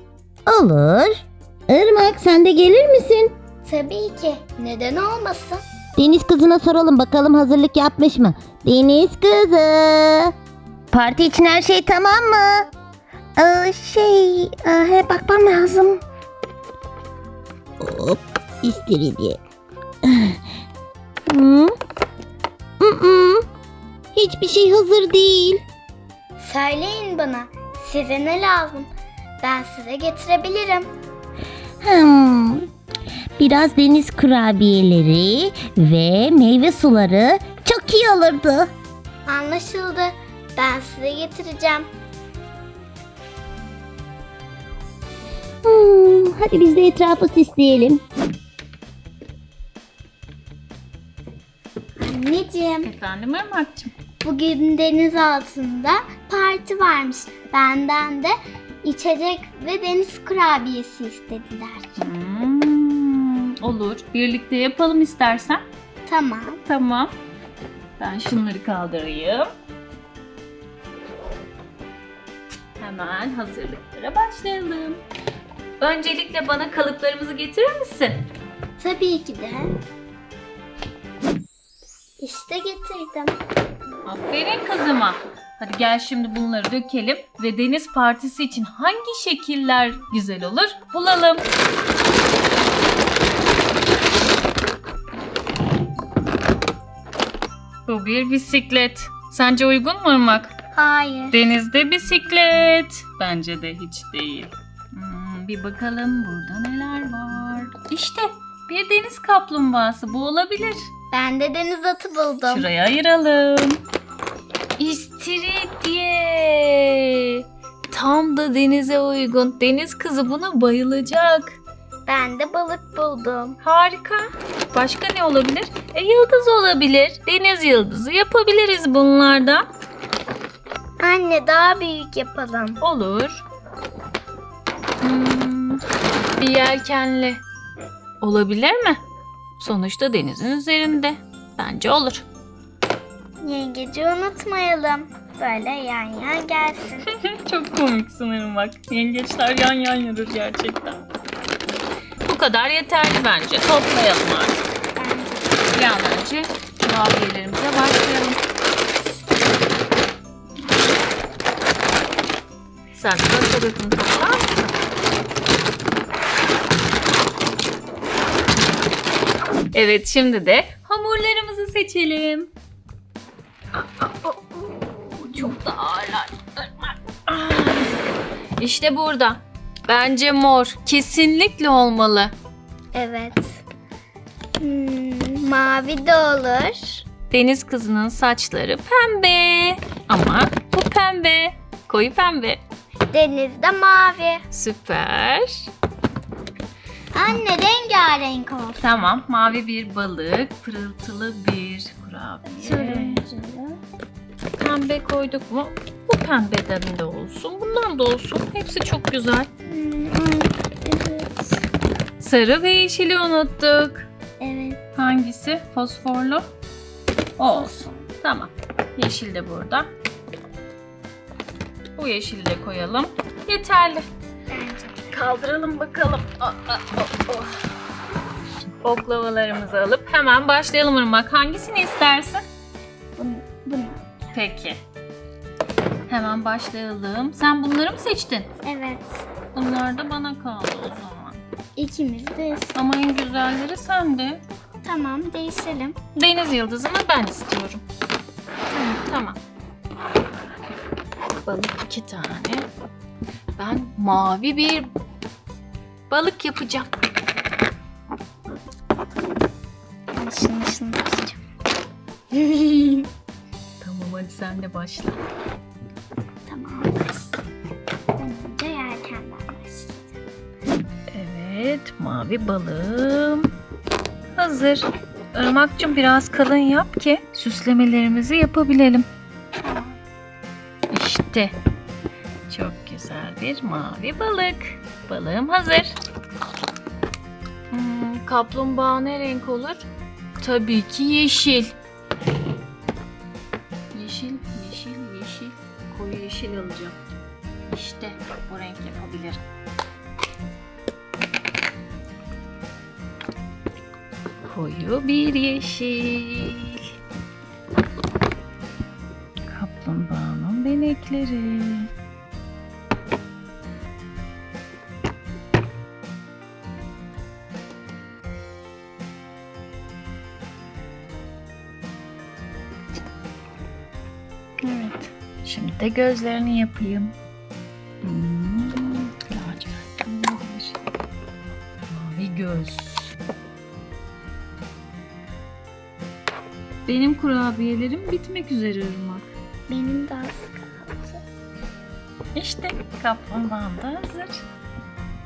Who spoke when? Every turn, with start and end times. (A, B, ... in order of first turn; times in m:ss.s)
0:00.5-0:03.3 A
0:03.6-0:05.6 B
0:06.0-0:10.3 A
0:10.9-0:12.7 A
0:13.4-0:16.0 A
0:17.8-0:19.4 A
0:20.0-0:20.4 A
0:21.3-0:21.7 A
0:22.8-0:23.4 A
0:24.1-0:25.6 A
0:26.4-0:28.9 B
0:29.4-0:30.9 B
0:31.8-0:32.7 A
0:33.4-0:38.7 A
0:39.2-0:41.9 B
0:45.6-0:48.0 A
0:52.0-0:52.9 B
0:52.8-0:53.9 C
0:54.2-1:01.9 B
1:02.0-1:05.6 C
1:06.0-1:06.6 B
1:06.6-1:07.1 C
1:08.0-1:09.5 C
1:12.8-1:15.0 C
1:15.8-1:18.2 C
1:18.8-1:19.7 B
1:22.2-1:23.3 B
1:24.0-1:31.4 C
1:37.9-1:40.5 C
1:40.7-1:41.4 B
1:41.3-1:50.9 C
1:51.1-1:52.7 B
1:52.5-1:53.8 C
1:54.8-2:01.6 C
2:02.0-2:03.6 B
2:03.6-2:09.6 C
2:11.0-2:12.8 B
2:12.8-2:13.4 C
2:15.0-2:15.8 C
2:16.4-2:17.4 C
2:18.2-2:19.0 C
2:19.6-2:22.2 C
2:23.4-2:27.1 B
2:27.3-2:31.0 C
2:32.2-2:34.6 C
2:34.9-2:35.7 B
2:35.7-2:38.4 C
2:42.9-2:44.7 C
2:49.7-2:52.5 C
2:53.7-2:58.0 C
2:58.6-3:02.3 C
3:02.9-3:03.6 B
3:04.6-3:07.0 B
3:07.3-3:12.6 C
3:13.1-3:14.4 B
3:14.5-3:15.7 C
3:17.1-3:18.8 B
3:18.8-3:23.2 C
3:22.5-3:23.8 B
3:24.6-3:29.5 C
3:29.6-3:31.6 B
3:32.2-3:34.1 C
3:34.4-3:34.8 B
3:35.0-3:36.5 C
3:37.4-3:39.9 C
3:37.4-3:38.0 B
3:42.0-3:44.1 C
3:44.5-3:45.1 B
3:45.1-3:47.6 C
3:48.8-3:52.4 C
3:53.2-3:54.3 B
3:54.3-3:54.8 C
3:56.1-3:58.5 C
3:58.6-3:59.3 B
3:59.5-4:01.4 C
4:01.8-4:02.7 B
4:02.7-4:04.4 C
4:04.8-4:06.0 B
4:06.1-4:07.8 C
4:08.7-4:09.0 B
4:09.0-4:09.4 C
4:11.4-4:12.7 C
4:13.6-4:14.9 C
4:16.1-4:16.9 C
4:20.1-4:21.4 B
4:22.3-4:23.1 B
4:23.8-4:25.2 C
4:26.5-4:27.3 B
4:28.1-4:30.2 B
4:31.1-4:33.5 C
4:34.4-4:39.1 C
4:39.6-4:39.9 B
4:40.9-4:41.5 C
4:42.5-4:46.0 C
4:47.7-4:49.9 C
4:50.4-4:51.7 C
4:53.9-4:57.0 C
4:57.7-4:59.4 C
5:04.4-5:06.9 C
5:09.5-5:11.9 C
5:24.6-5:27.1 C
5:28.0-5:30.8 C
5:31.9-5:33.1 C
5:36.8-5:39.3 C
5:39.7-5:41.2 B
5:42.3-5:44.4 C